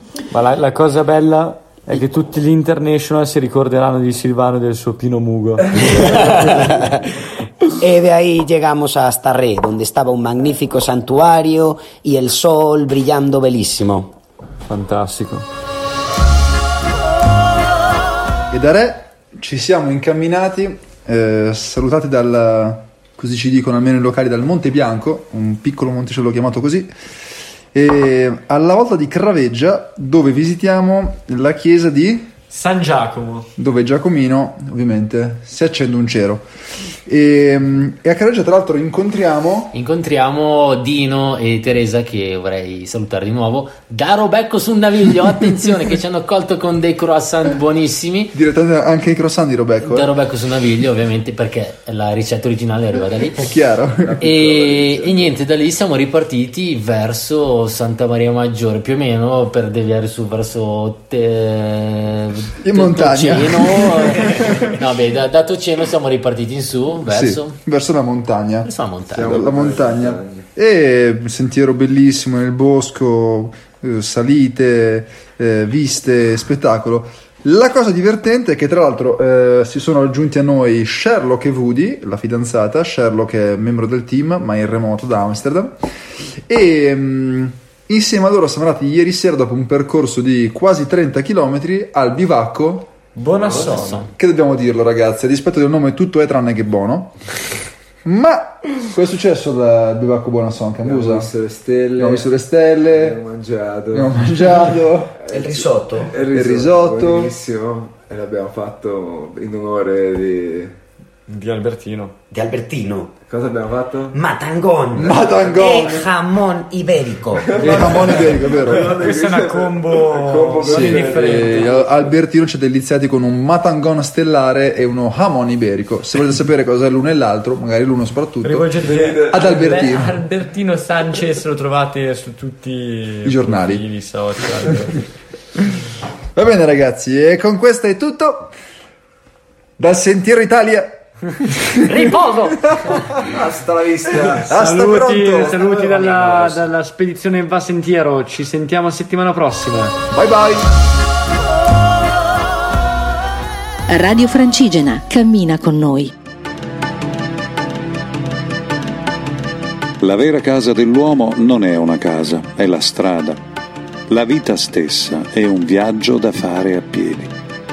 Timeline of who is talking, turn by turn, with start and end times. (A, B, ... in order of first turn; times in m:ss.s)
0:00.3-0:05.8 A
0:06.0-0:06.6 B
0:07.8-0:14.1 B
0:14.7-0:15.5 A
0:18.5-0:26.9 C
0:27.7-0:32.3 C
0:32.5-0:33.5 A
0:33.6-0:36.4 C
0:37.1-0:39.7 C
0:39.7-0:48.3 D
0:48.3-0:50.1 C
0:49.8-0:53.5 D
0:53.4-0:54.3 C
0:54.0-0:55.4 E
0:54.2-1:07.6 D
1:02.6-1:04.2 C
1:07.1-1:08.7 C
1:08.6-1:09.3 D
1:09.1-1:10.5 E
1:09.2-1:25.8 C
1:26.5-1:32.9 C
1:33.2-1:34.1 A
1:33.5-1:34.0 D
1:34.0-1:37.2 C
1:38.0-1:41.3 C
1:40.8-1:42.3 E
1:42.0-1:43.2 C
1:42.9-1:44.2 E
1:43.9-1:45.1 C
1:45.2-1:50.7 E
1:45.3-1:46.1 B
1:46.3-1:47.3 C
1:51.3-1:52.1 A
1:52.3-1:53.1 B
1:53.3-1:54.2 E
1:54.1-1:58.2 B
1:54.9-1:55.9 C
1:55.4-1:56.0 E
1:57.4-2:02.0 E
1:57.6-1:59.0 C
1:58.7-2:01.9 A
2:00.6-2:08.7 C
2:08.4-2:15.1 A
2:08.8-2:09.4 E
2:09.3-2:10.2 C
2:13.2-2:13.8 C
2:16.4-2:18.5 C
2:19.8-2:21.0 C
2:21.5-2:23.2 C
2:21.8-2:23.2 A
2:23.3-2:24.5 E
2:24.1-2:26.5 C
2:24.4-2:30.0 A
2:26.0-2:26.5 E
2:30.1-2:30.6 C
2:33.9-2:36.1 F
2:40.0-2:43.4 G
2:44.1-2:47.3 G